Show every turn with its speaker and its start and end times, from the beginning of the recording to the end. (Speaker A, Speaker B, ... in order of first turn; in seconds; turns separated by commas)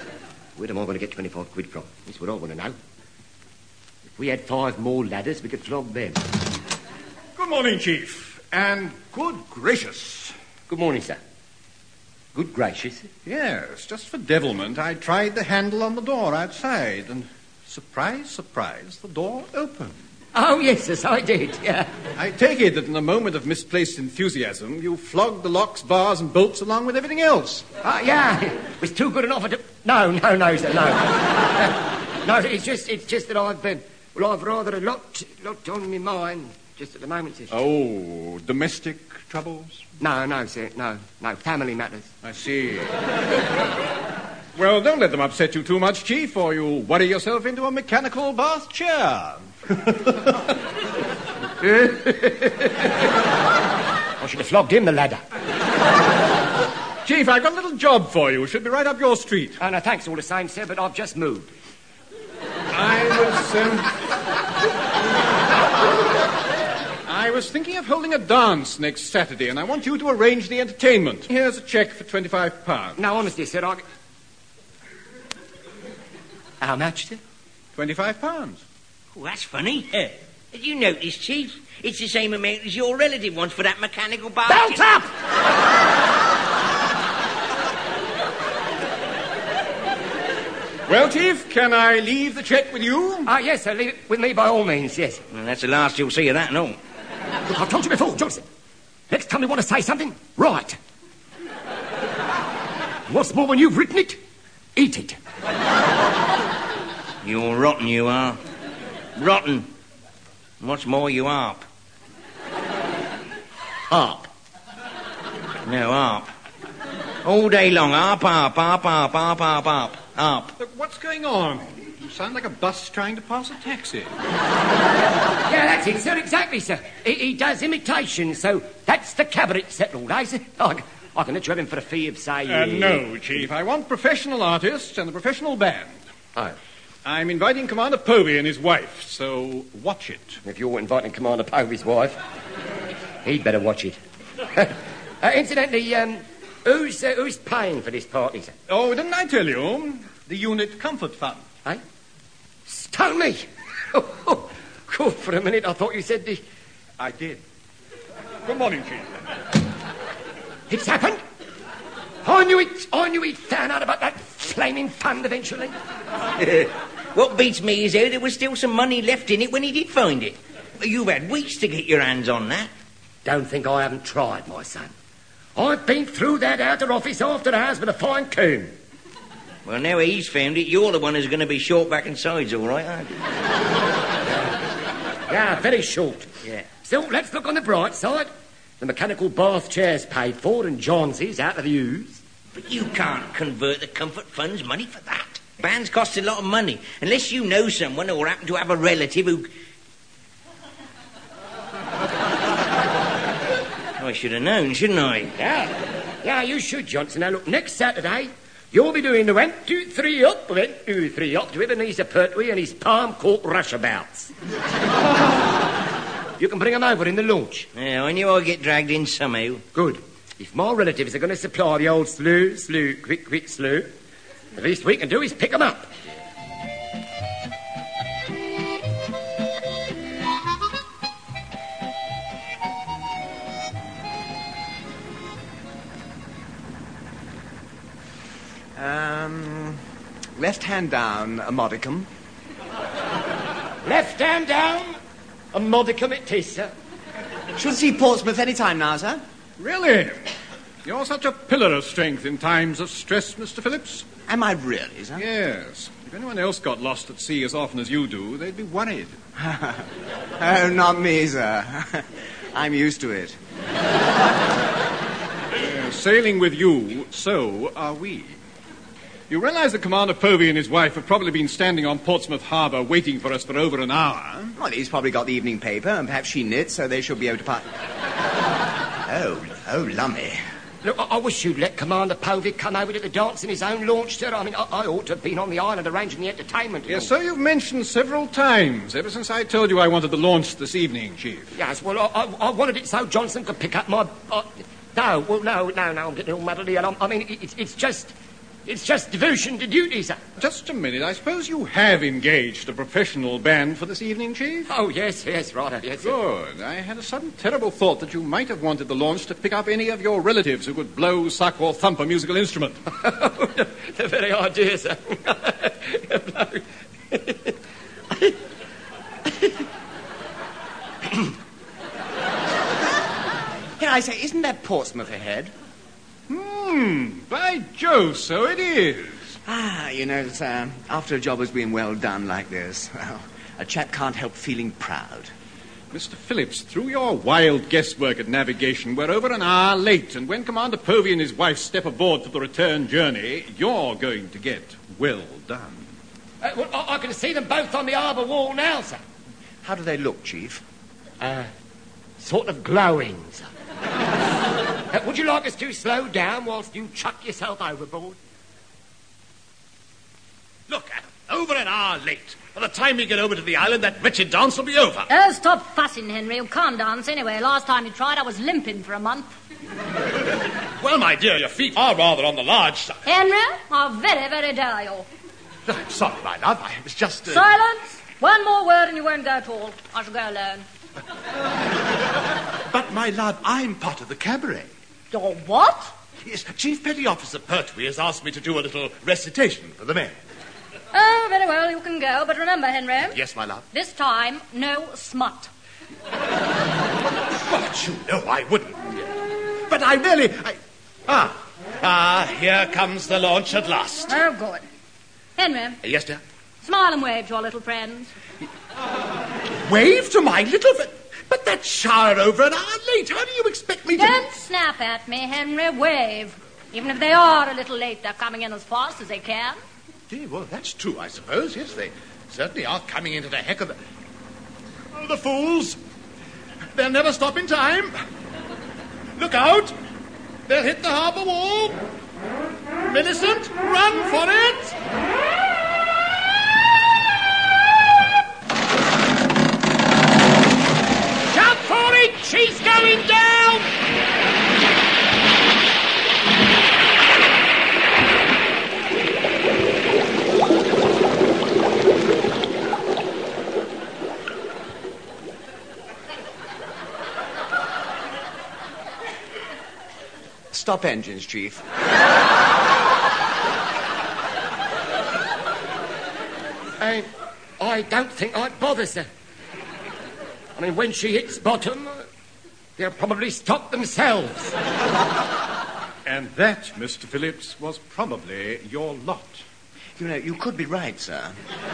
Speaker A: 0.6-2.8, Speaker A: 4.2-6.2, Speaker B: 7.4-10.3, Speaker A: 10.7-11.2, Speaker A: 12.3-13.1, Speaker B: 13.2-19.9, Speaker A: 20.4-21.9, Speaker B: 22.2-27.6, Speaker A: 27.8-37.5, Speaker B: 37.5-39.8, Speaker A: 40.0-42.1, Speaker B: 42.2-42.9, Speaker B: 44.6-50.2, Speaker A: 51.6-52.7, Speaker A: 54.2-55.2, Speaker B: 57.0-59.6, Speaker A: 59.6-61.5, Speaker B: 62.7-63.9, Speaker B: 67.1-73.0, Speaker A: 73.0-73.8, Speaker A: 76.6-77.2, Speaker B: 77.8-78.6, Speaker C: 79.1-84.8, Speaker A: 84.5-85.1, Speaker B: 90.9-93.3, Speaker A: 93.3-95.2, Speaker C: 95.3-96.8, Speaker A: 97.5-98.4, Speaker A: 99.1-100.8, Speaker A: 103.1-104.2, Speaker A: 104.8-105.2, Speaker C: 107.2-108.4, Speaker C: 109.2-109.7, Speaker C: 110.6-111.6, Speaker A: 113.9-114.3, Speaker C: 115.7-116.3, Speaker C: 117.2-120.5, Speaker B: 120.6-124.1, Speaker A: 125.4-133.1, Speaker B: 132.4-136.0, Speaker B: 137.1-140.4, Speaker A: 140.4-142.2, Speaker A: 143.2-144.0, Speaker A: 144.5-148.5, Speaker B: 148.7-151.4, Speaker A: 152.7-156.4, Speaker B: 157.0-157.4, Speaker B: 158.4-159.2, Speaker A: 160.7-161.2, Speaker A: 162.2-165.7, Speaker C: 166.4-172.7, Speaker A: 173.2-174.9, Speaker A: 175.6-178.7, Speaker C: 179.7-183.2, Speaker A: 185.3-186.3, Speaker A: 186.8-192.2, Speaker C: 192.5-199.5, Speaker C: 204.0-205.3, Speaker A: 205.4-214.3, Speaker A: 216.4-217.7, Speaker C: 217.8-219.7, Speaker A: 219.7-223.9, Speaker A: 224.6-225.9, Speaker D: 238.8-239.8, Speaker D: 240.4-242.1, Speaker A: 243.8-245.0, Speaker A: 245.5-246.7, Speaker D: 247.6-249.2, Speaker B: 249.6-250.3, Speaker B: 250.8-254.1, Speaker D: 254.3-255.2, Speaker B: 255.2-259.1, Speaker D: 259.4-259.9, Speaker D: 260.4-263.4, Speaker B: 265.6-268.4, Speaker B: 269.3-274.6, Speaker D: 274.6-277.7, Speaker D: 279.1-280.4, Speaker A: 280.8-287.1, Speaker B: 286.9-291.5, Speaker A: 291.5-298.1, Speaker A: 298.7-300.2, Speaker B: 300.4-304.7, Speaker A: 304.7-306.2, Speaker B: 306.0-312.8, Speaker A: 312.9-317.5, Speaker D: 323.8-325.5, Speaker B: 326.3-329.4, Speaker D: 329.4-335.3, Speaker B: 335.9-345.9, Speaker A: 346.4-349.0, Speaker D: 349.6-350.6, Speaker A: 351.2-351.5, Speaker A: 352.2-353.5, Speaker A: 354.9-358.2, Speaker E: 360.7-365.1, Speaker F: 365.1-369.3, Speaker E: 370.8-373.0, Speaker F: 373.1-375.1, Speaker E: 375.7-377.5, Speaker F: 377.3-380.7, Speaker E: 382.7-384.7, Speaker F: 385.1-385.9, Speaker E: 386.2-390.1, Speaker F: 390.9-393.2, Speaker E: 393.1-393.6, Speaker F: 393.7-395.5, Speaker E: 397.4-399.0, Speaker E: 399.7-404.2, Speaker F: 404.1-404.6, Speaker F: 405.4-405.8, Speaker E: 405.8-406.2, Speaker F: 406.6-408.1, Speaker E: 409.6-414.2, Speaker F: 413.9-419.6, Speaker E: 420.1-423.8, Speaker E: 424.9-425.8, Speaker E: 426.8-427.9, Speaker E: 429.2-429.8, Speaker E: 430.5-431.8, Speaker E: 432.8-434.8, Speaker A: 441.3-443.6, Speaker D: 460.5-461.6, Speaker A: 466.8-467.1, Speaker A: 467.6-469.1, Speaker A: 470.6-472.1, Speaker A: 472.8-474.6, Speaker B: 476.1-479.4, Speaker D: 480.0-481.4